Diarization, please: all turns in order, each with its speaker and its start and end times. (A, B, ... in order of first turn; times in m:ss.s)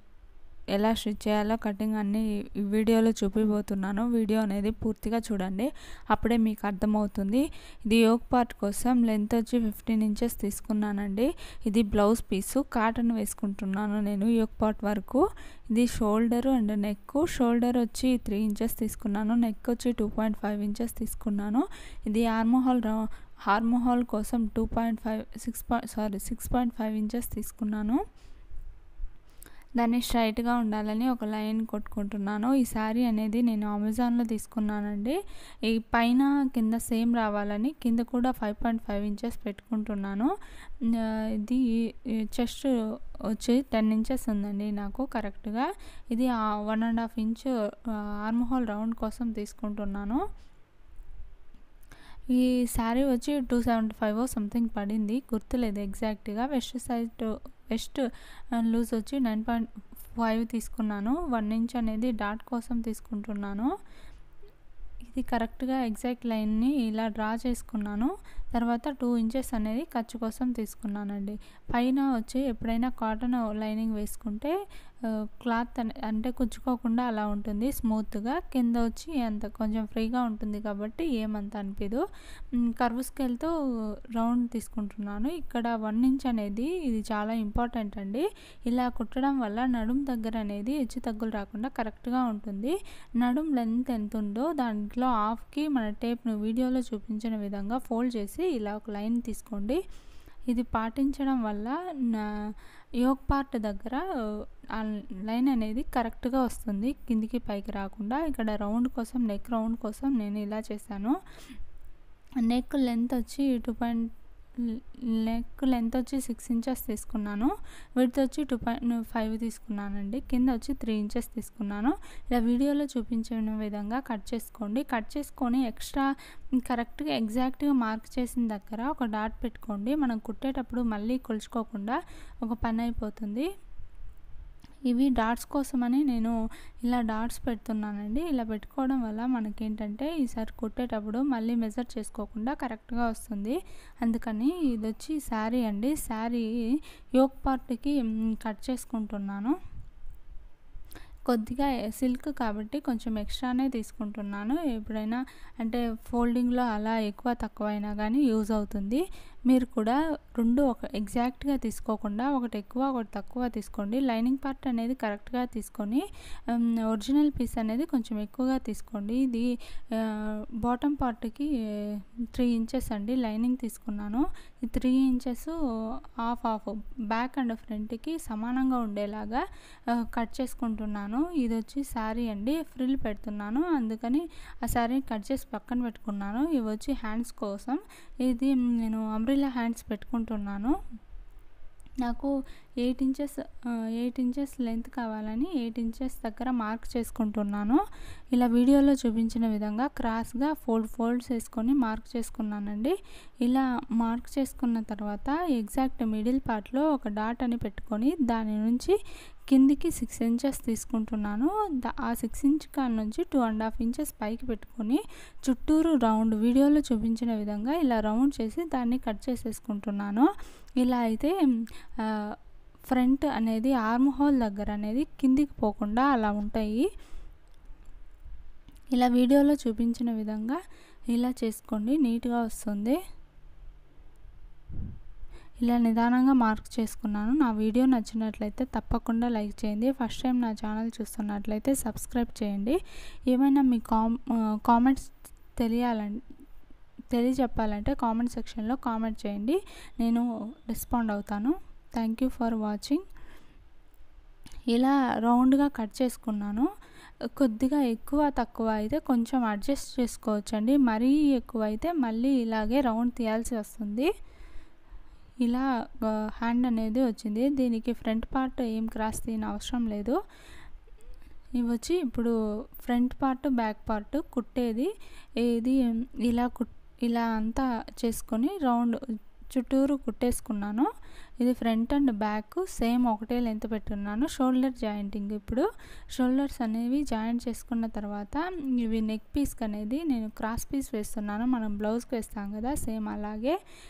0:00.7-0:28.0 A
0:29.8-0:40.3 A
0:41.0-0:41.6 A
0:42.3-0:42.7 A
0:43.3-0:47.5 A
0:48.2-0:50.2 A
0:52.3-0:58.0 A
0:58.6-0:59.7 A
1:00.2-1:03.7 A
1:05.0-1:14.6 A
1:15.1-1:22.0 A
1:22.7-1:23.5 A
1:24.2-1:39.8 A
1:40.5-1:44.0 A
1:44.7-1:51.2 A
1:52.4-1:54.1 A
1:54.6-2:06.1 A
2:06.6-2:13.5 A
2:14.9-2:26.5 A
2:27.2-2:29.6 A
2:31.3-2:55.6 A
2:56.2-3:10.7 A
3:12.0-3:17.8 A
3:18.3-3:29.0 A
3:29.5-3:40.3 A
3:40.8-3:41.3 A
3:42.0-3:42.3 A
3:42.9-3:46.9 A
3:48.9-3:50.6 A
3:51.1-3:53.0 A
3:55.6-4:02.8 A
4:03.3-4:06.2 A
4:07.1-4:13.0 A
4:14.7-4:16.7 A
4:17.4-4:24.1 A
4:25.4-4:30.2 A
4:31.6-4:34.9 A
4:35.4-4:39.0 A
4:39.5-4:40.9 A
4:41.4-4:45.6 A
4:46.2-4:53.6 A